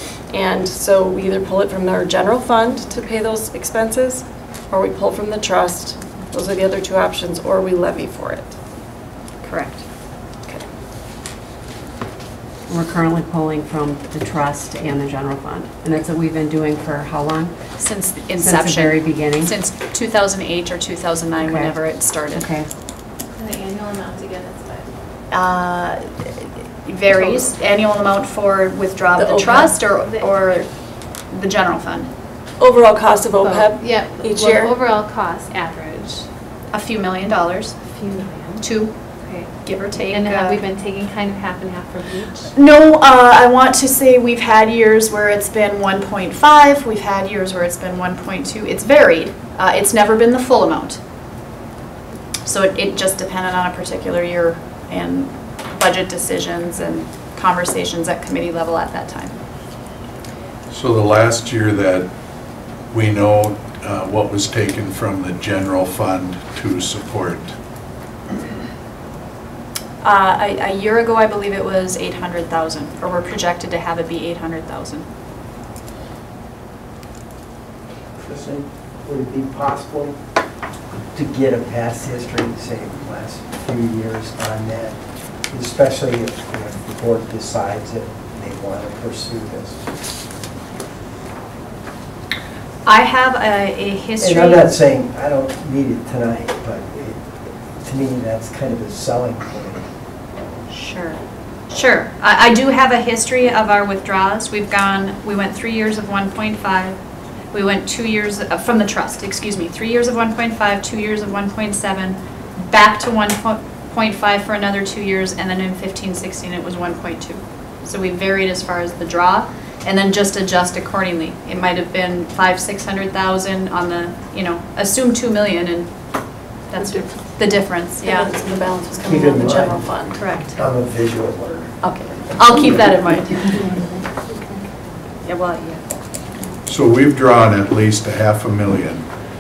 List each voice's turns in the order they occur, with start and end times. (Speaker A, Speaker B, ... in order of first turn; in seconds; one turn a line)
Speaker A: 0.3-8.5
Speaker B: 9.4-9.8
Speaker C: 12.7-17.5
Speaker B: 17.8-22.5
Speaker C: 18.4-19.5
Speaker C: 21.4-21.8
Speaker C: 22.3-22.7
Speaker D: 23.3-24.9
Speaker B: 25.3-30.7
Speaker A: 27.1-27.4
Speaker A: 29.2-29.8
Speaker D: 29.9-30.6
Speaker B: 31.3-32.1
Speaker A: 32.6-34.8
Speaker D: 33.4-36.2
Speaker B: 36.7-37.8
Speaker D: 37.9-38.6
Speaker B: 38.6-38.9
Speaker D: 39.2-39.5
Speaker B: 39.6-40.6
Speaker D: 40.0-42.5
Speaker B: 42.5-51.0
Speaker B: 52.5-59.3
Speaker E: 60.7-62.1
Speaker E: 62.9-67.5
Speaker B: 70.0-75.0
Speaker F: 78.2-80.2
Speaker F: 81.1-85.0
Speaker F: 85.5-89.8
Speaker B: 92.8-94.7
Speaker F: 94.2-97.2
Speaker F: 97.8-99.8
Speaker B: 100.7-107.0
Speaker B: 107.5-125.9
Speaker B: 126.7-128.3
Speaker A: 128.0-130.2
Speaker F: 129.1-129.9
Speaker B: 129.4-130.6
Speaker F: 130.5-131.8
Speaker B: 131.8-133.8
Speaker B: 135.2-135.8
Speaker E: 136.7-139.1